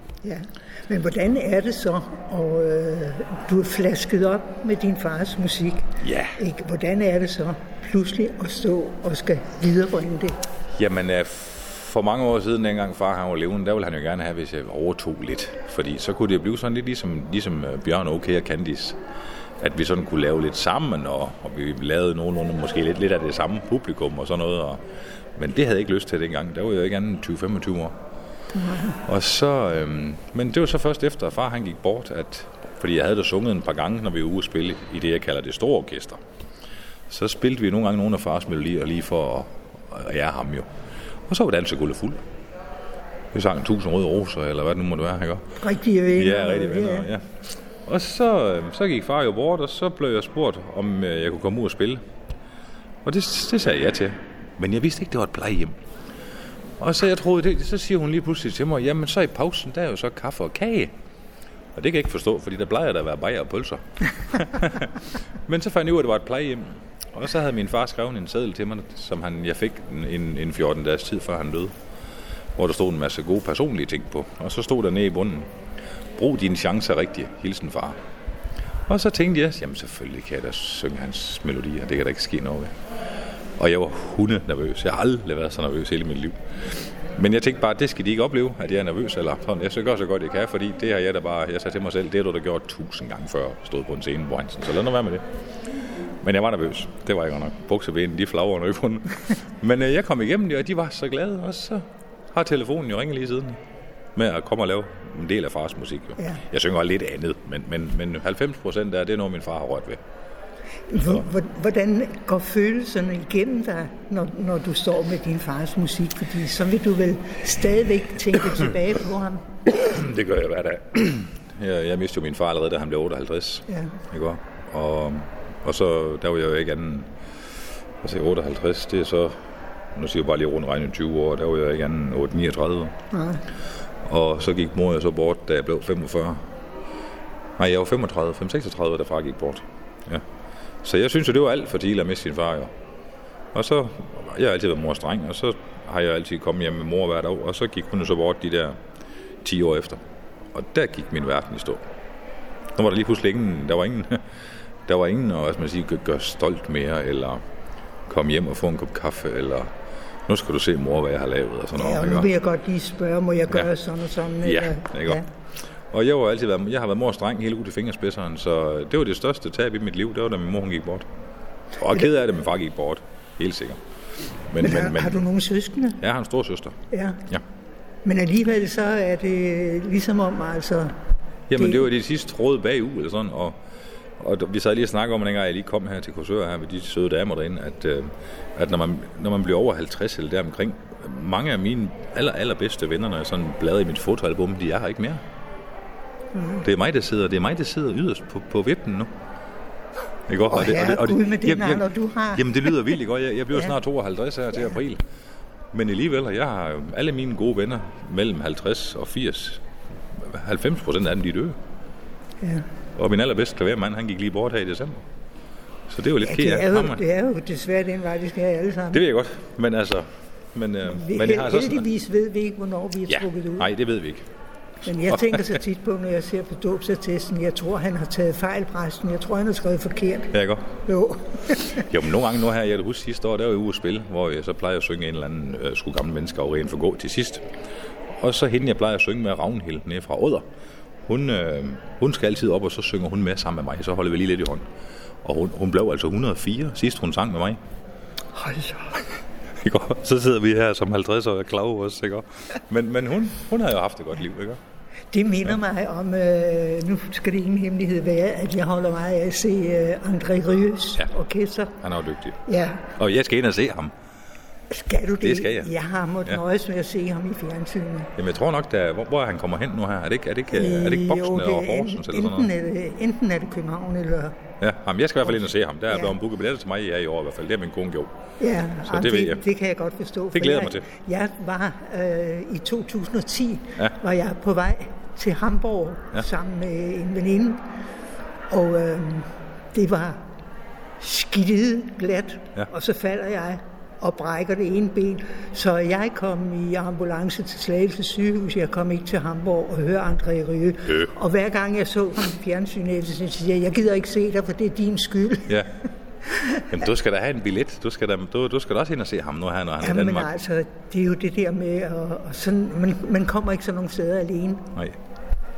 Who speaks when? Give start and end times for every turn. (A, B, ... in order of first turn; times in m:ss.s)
0:00.2-0:10.4 A
0:06.0-0:06.4 B
0:10.8-0:19.0 B
0:19.6-0:24.8 B
0:25.4-0:27.9 B
0:28.6-0:29.0 A
0:28.8-0:36.2 B
0:37.1-0:40.7 B
0:41.3-0:42.2 B
0:43.3-0:45.6 B
0:45.6-0:47.1 A
0:46.2-0:47.2 B
0:47.9-0:52.0 B
0:53.0-0:55.8 B
0:56.8-1:00.9 B
1:01.8-1:11.7 B
1:12.6-1:15.5 B
1:16.2-1:18.0 B
1:18.9-1:22.7 B
1:23.6-1:35.2 B
1:36.2-1:41.8 B
1:42.3-1:43.6 B
1:44.2-1:50.0 B
1:50.9-1:59.4 A
1:59.7-2:07.1 B
2:03.7-2:04.0 A
2:08.0-2:09.3 B
2:09.9-2:12.9 B
2:13.1-2:13.4 A
2:14.1-2:16.4 B
2:17.6-2:20.2 B
2:20.8-2:22.7 B
2:23.5-2:28.8 B
2:29.4-2:30.0 B
2:30.5-2:31.8 B
2:32.8-2:34.2 B
2:34.9-2:37.4 B
2:38.1-2:39.7 B
2:40.3-2:42.3 B
2:41.8-2:45.2 A
2:44.4-2:45.2 B
2:45.9-2:51.1 B
2:51.8-2:53.8 B
2:54.5-2:55.2 B
2:54.6-2:56.0 A
2:56.0-2:57.4 B
2:56.9-2:57.2 A
2:58.0-3:00.9 A
3:01.5-3:03.6 B
3:04.2-3:15.2 B
3:16.4-3:16.6 A
3:16.6-3:19.1 B
3:20.3-3:25.0 B
3:20.4-3:22.9 A
3:25.7-3:29.6 B
3:30.1-3:31.6 B
3:33.0-3:35.0 B
3:35.9-3:37.0 B
3:36.2-3:39.0 A
3:38.9-3:41.8 B
3:40.9-3:43.7 A
3:43.1-3:44.2 B
3:44.8-3:50.3 A
3:45.1-3:45.4 B
3:50.3-3:50.6 B
3:50.9-3:51.9 A
3:51.8-3:57.4 B
3:58.2-4:00.4 B
4:01.1-4:04.7 B
4:05.2-4:07.6 B
4:08.3-4:09.0 A
4:09.6-4:14.6 B
4:15.1-4:21.8 A
4:21.8-4:22.4 B
4:22.4-4:22.9 A
4:23.0-4:23.9 B
4:24.7-4:28.1 A
4:25.2-4:25.7 B
4:28.2-4:32.5 B
4:30.5-4:34.4 A
4:34.6-4:38.1 B
4:38.4-4:47.6 A
4:38.8-4:39.4 B
4:40.3-4:40.8 B
4:48.5-4:50.2 A
4:51.0-5:05.6 A
5:06.6-5:10.3 B
5:09.8-5:14.7 A